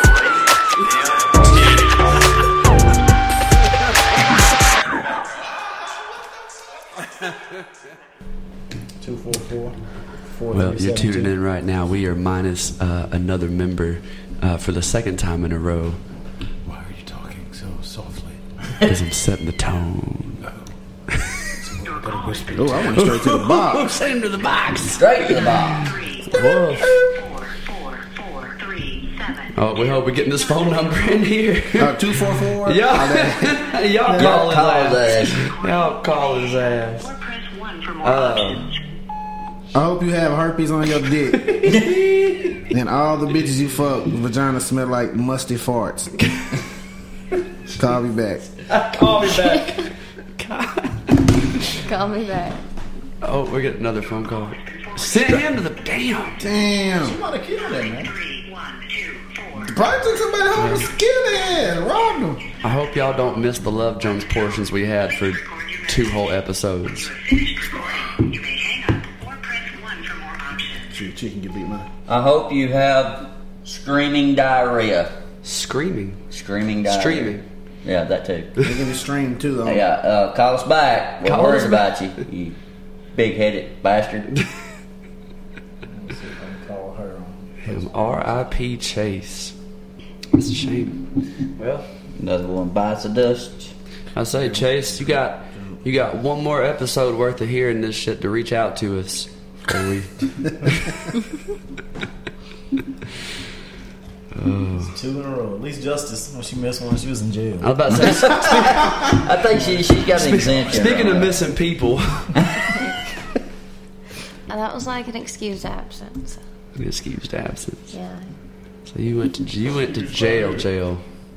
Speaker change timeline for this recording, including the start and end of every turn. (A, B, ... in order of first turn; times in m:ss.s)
0:09.0-0:09.8 A
0:10.3-0:11.3 A
0:10.5-0:16.0 B
0:16.7-0:18.8 C
0:18.9-0:20.4 B
0:21.7-0:22.0 C
0:21.8-0:23.0 D
0:22.5-0:23.9 E
0:22.8-0:27.1 B
0:25.0-0:25.9 F
0:25.8-0:31.3 D
0:26.4-0:26.9 E
0:29.6-0:37.1 B
0:31.8-0:33.5 E
0:33.0-0:34.0 D
0:34.1-0:34.4 E
0:34.1-0:35.4 F
0:34.9-0:38.8 D
0:38.0-0:38.6 B
0:39.7-0:41.5 E
0:41.4-0:42.6 B
0:42.7-0:46.1 E
0:47.7-0:48.5 E
0:48.7-0:49.9 B
0:49.2-0:49.7 G
0:50.4-0:51.2 B
0:51.8-0:52.6 G
0:53.2-0:56.4 B
0:54.0-0:55.6 D
0:56.4-0:57.2 E
0:56.9-0:58.1 A
0:57.6-0:59.8 D
0:59.6-1:02.4 E
1:00.6-1:00.9 B
1:02.6-1:07.1 B
1:04.1-1:04.3 D
1:05.0-1:10.9 D
1:10.9-1:11.9 E
1:12.1-1:15.1 F
1:15.4-1:16.2 B
1:16.3-1:18.6 F
1:16.9-1:17.4 B
1:18.6-1:19.9 E
1:19.6-1:22.6 F
1:21.2-1:21.9 B
1:23.2-1:24.3 F
1:25.9-1:28.2 A
1:27.7-1:29.6 B
1:30.3-1:31.0 B
1:31.6-1:31.9 B
1:32.2-1:33.7 F
1:34.2-1:41.2 B
1:44.3-1:44.9 B
1:44.8-1:47.7 A
1:47.6-1:49.3 B
1:48.0-1:51.4 F
1:48.6-1:49.1 E
1:50.1-1:52.3 B
1:50.5-1:51.1 C
1:52.4-1:52.6 F
1:54.5-1:56.4 G
1:56.8-1:57.9 B
1:57.9-1:58.2 G
1:58.9-2:01.0 B
1:59.7-2:00.7 C